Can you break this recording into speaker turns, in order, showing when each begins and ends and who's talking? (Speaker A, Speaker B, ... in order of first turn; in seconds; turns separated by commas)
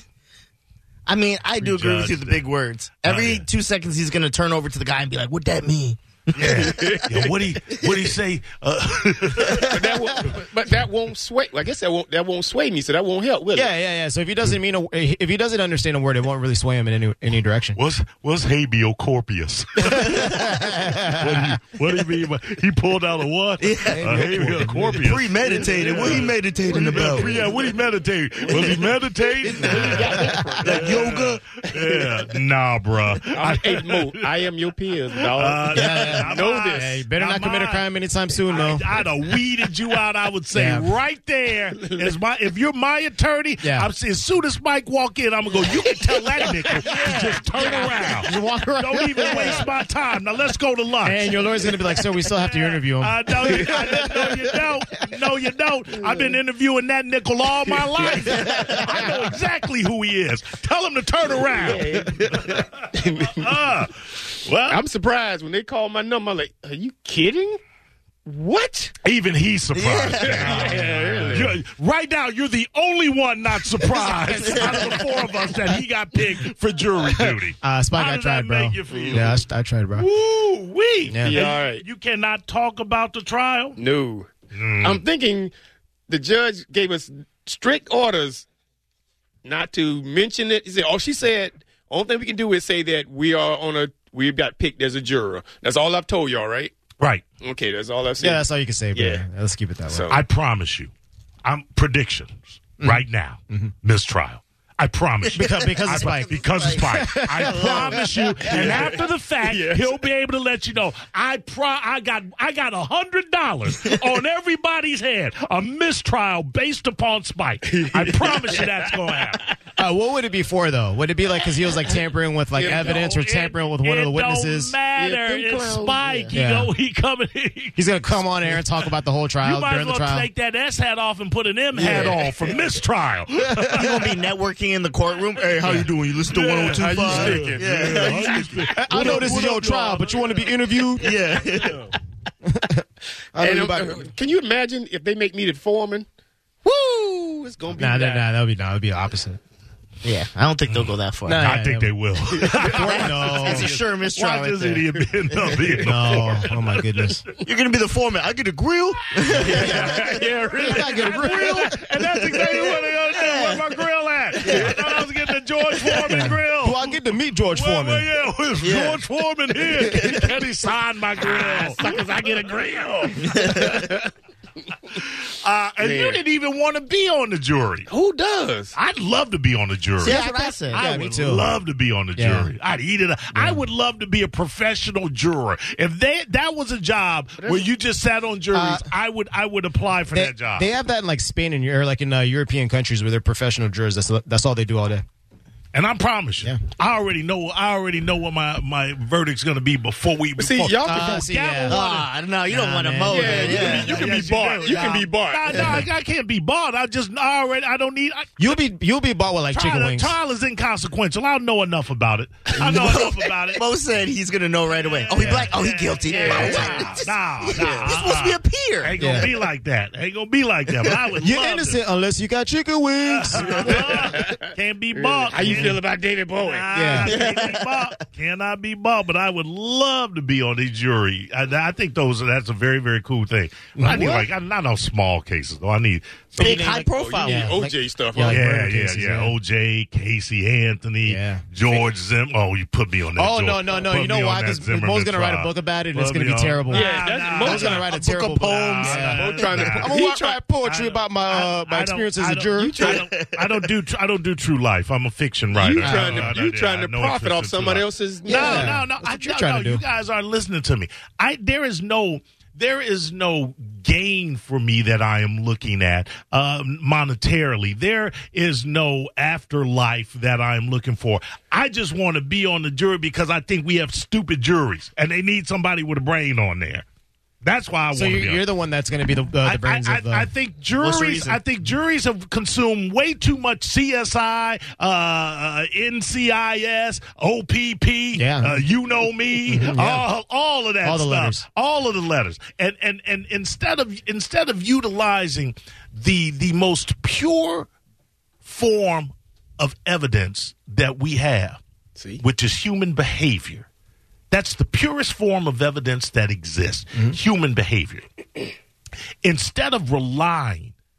Speaker A: 1.1-7.0, Speaker B: 1.6-2.5, Speaker B: 3.0-3.5, Speaker B: 6.3-10.3, Speaker C: 6.7-7.3, Speaker C: 9.6-13.7, Speaker D: 13.5-17.8, Speaker B: 17.7-34.2, Speaker A: 20.0-20.7, Speaker D: 20.9-21.1, Speaker A: 23.6-27.4, Speaker D: 24.0-24.7, Speaker C: 25.4-26.2, Speaker A: 29.4-31.4, Speaker C: 29.6-32.1, Speaker C: 33.3-36.9, Speaker B: 35.2-37.9, Speaker D: 35.7-38.9, Speaker B: 38.5-51.4, Speaker D: 40.5-40.9, Speaker D: 43.6-43.9, Speaker A: 46.9-47.8, Speaker D: 48.2-49.6, Speaker D: 51.0-54.4, Speaker B: 52.1-64.8, Speaker C: 57.7-58.4, Speaker D: 58.5-58.8, Speaker C: 61.5-63.6, Speaker C: 64.7-67.6, Speaker C: 68.2-68.9, Speaker B: 69.0-79.4, Speaker A: 69.7-70.8, Speaker C: 70.2-71.5, Speaker D: 70.7-71.4, Speaker A: 74.1-75.0, Speaker D: 77.6-80.1, Speaker C: 78.9-79.2, Speaker B: 80.0-83.8, Speaker D: 81.1-81.4, Speaker C: 81.2-81.8, Speaker C: 83.8-85.5, Speaker B: 84.5-85.0, Speaker C: 86.1-88.5, Speaker C: 89.4-96.7, Speaker B: 97.0-97.2, Speaker C: 97.4-99.2, Speaker D: 98.2-100.1, Speaker C: 99.9-100.2, Speaker B: 100.1-100.9, Speaker B: 101.4-119.4, Speaker D: 102.8-103.7, Speaker D: 105.3-108.1, Speaker A: 105.8-108.0, Speaker C: 108.4-109.9, Speaker C: 117.7-118.9, Speaker D: 119.8-124.7, Speaker C: 122.6-123.0, Speaker B: 122.6-128.6, Speaker C: 125.0-126.2, Speaker A: 126.0-126.3, Speaker D: 126.3-126.7, Speaker D: 127.8-130.3, Speaker B: 129.4-134.3, Speaker A: 131.8-132.2, Speaker A: 133.7-139.5, Speaker B: 135.7-140.5, Speaker C: 136.6-138.8, Speaker D: 138.8-141.0, Speaker A: 141.0-141.9, Speaker C: 141.5-141.9, Speaker D: 142.4-144.1, Speaker C: 143.4-146.1, Speaker C: 146.6-148.3, Speaker D: 147.8-149.4, Speaker A: 150.0-151.5, Speaker B: 150.7-157.2, Speaker D: 151.2-151.9, Speaker C: 152.3-152.7, Speaker D: 152.5-153.7, Speaker A: 152.7-154.8, Speaker D: 155.8-157.2, Speaker A: 157.4-160.2, Speaker B: 159.3-172.0, Speaker C: 159.5-161.3, Speaker D: 160.6-161.7, Speaker A: 162.2-163.6, Speaker A: 164.4-164.8, Speaker D: 166.1-168.1, Speaker A: 168.6-169.0, Speaker A: 169.8-170.2, Speaker C: 171.2-174.1, Speaker A: 173.3-173.8, Speaker B: 174.9-177.9, Speaker C: 175.8-176.2, Speaker C: 177.9-178.7, Speaker B: 178.7-190.7, Speaker A: 180.0-180.9, Speaker D: 180.0-181.5, Speaker D: 182.2-182.5, Speaker C: 187.4-187.7, Speaker D: 188.5-188.9, Speaker D: 190.1-195.0, Speaker B: 195.7-202.1, Speaker C: 200.4-201.3, Speaker D: 200.8-201.8, Speaker A: 201.7-204.1, Speaker D: 202.5-204.1, Speaker C: 203.1-205.8, Speaker B: 203.4-208.5, Speaker D: 208.4-210.1, Speaker B: 209.5-213.7, Speaker A: 212.6-219.2, Speaker B: 214.7-221.8, Speaker D: 215.1-215.4, Speaker C: 216.1-216.9, Speaker C: 217.5-217.9, Speaker D: 219.0-219.3, Speaker D: 221.2-223.9, Speaker B: 223.0-225.8, Speaker C: 223.7-226.7, Speaker B: 226.4-236.7, Speaker D: 226.7-227.2, Speaker A: 227.0-227.8, Speaker D: 233.8-234.1, Speaker A: 233.9-234.2, Speaker C: 236.3-238.5, Speaker A: 236.4-237.5, Speaker D: 236.4-239.3, Speaker B: 238.2-250.0, Speaker D: 241.0-241.4, Speaker D: 243.2-252.8, Speaker C: 246.7-248.0, Speaker C: 248.8-250.4, Speaker B: 250.6-276.8, Speaker C: 252.6-253.1, Speaker A: 253.0-253.5, Speaker C: 255.5-258.8, Speaker D: 255.8-256.3, Speaker D: 258.3-259.8, Speaker B: 277.4-278.4, Speaker D: 277.9-280.3, Speaker B: 279.4-297.7, Speaker A: 280.8-281.4, Speaker D: 288.1-288.6, Speaker D: 289.5-290.1, Speaker D: 290.8-291.4, Speaker B: 298.4-301.6, Speaker B: 302.2-303.7, Speaker B: 304.3-308.0, Speaker B: 309.2-310.7